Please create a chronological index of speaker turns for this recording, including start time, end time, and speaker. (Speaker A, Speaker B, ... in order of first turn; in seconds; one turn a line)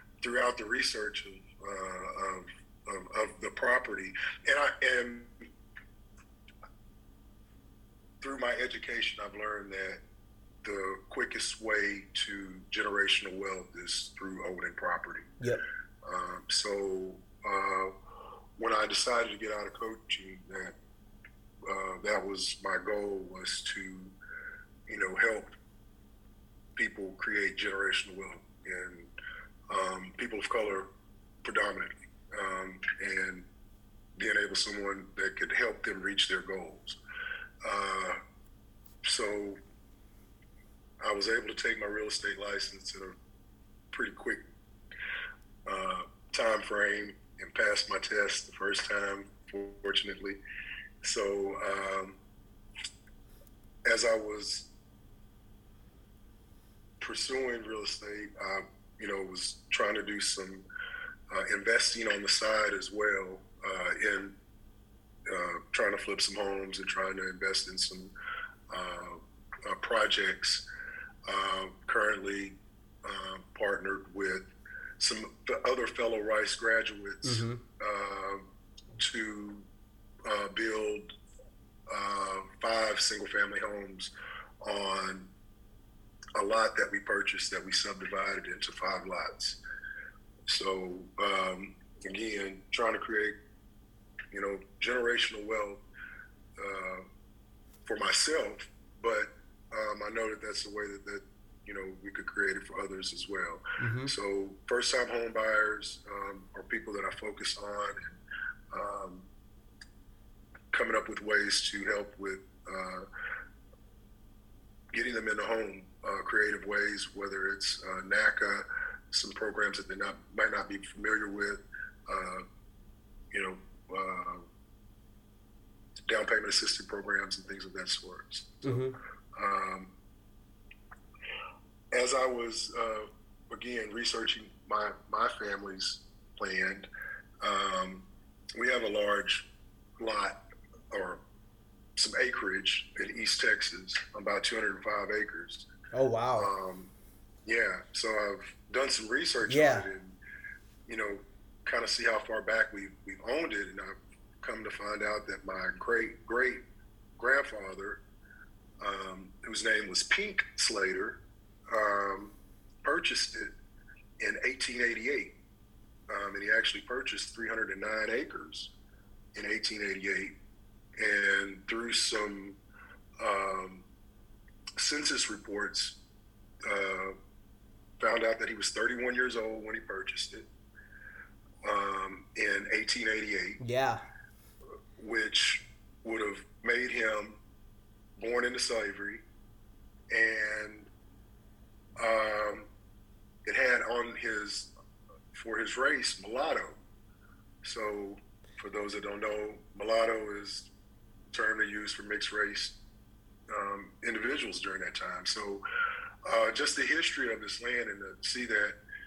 Speaker A: 0.2-5.5
Speaker A: 8.2-10.0
Speaker A: 10.6-15.3
Speaker A: 16.1-17.9
Speaker A: 18.6-20.8
Speaker A: 21.7-24.1
Speaker A: 24.9-25.5
Speaker A: 26.8-29.1
Speaker A: 29.7-30.9
Speaker A: 31.4-33.5
Speaker A: 34.2-37.0
Speaker A: 37.6-38.2
Speaker A: 39.0-39.6
Speaker A: 41.0-43.2
Speaker A: 43.9-44.4
Speaker A: 45.7-50.4
Speaker A: 51.0-52.2
Speaker A: 53.9-54.7
Speaker A: 57.0-60.6
Speaker A: 61.3-64.3
Speaker A: 65.3-68.1
Speaker A: 68.7-70.7
Speaker A: 71.3-74.5
Speaker A: 75.0-78.5
Speaker B: 77.2-77.6
Speaker A: 79.0-79.7
Speaker A: 80.2-81.1
Speaker A: 81.9-85.3
Speaker A: 86.4-89.6
Speaker A: 90.5-93.4
Speaker A: 94.3-95.8
Speaker A: 96.6-97.1
Speaker A: 97.9-108.2
Speaker B: 103.8-104.1
Speaker A: 108.7-109.2
Speaker A: 110.7-113.1
Speaker A: 114.9-122.5
Speaker A: 123.3-124.5
Speaker A: 126.1-128.8
Speaker B: 128.6-129.0
Speaker A: 129.4-129.9
Speaker A: 131.9-136.9
Speaker A: 137.4-139.5
Speaker A: 140.0-140.4
Speaker A: 140.9-141.2
Speaker A: 142.0-145.7
Speaker B: 145.9-146.5
Speaker A: 146.4-146.9
Speaker A: 147.4-150.2
Speaker B: 149.5-149.9
Speaker A: 150.9-156.6
Speaker A: 157.2-158.0
Speaker A: 158.8-161.2
Speaker A: 161.7-163.5
Speaker A: 164.2-165.3
Speaker A: 166.1-168.7
Speaker A: 169.3-170.3
Speaker A: 171.0-172.6
Speaker A: 173.2-173.9
Speaker A: 174.8-176.0
Speaker A: 176.7-177.2
Speaker A: 178.0-180.5
Speaker A: 181.7-183.6
Speaker B: 183.6-184.0
Speaker A: 185.0-187.4
Speaker A: 188.2-189.2
Speaker A: 190.1-190.9
Speaker A: 192.0-192.7
Speaker A: 193.4-194.7
Speaker A: 195.3-196.8
Speaker A: 197.6-200.7
Speaker A: 201.3-202.8
Speaker A: 203.5-205.6
Speaker A: 206.3-208.8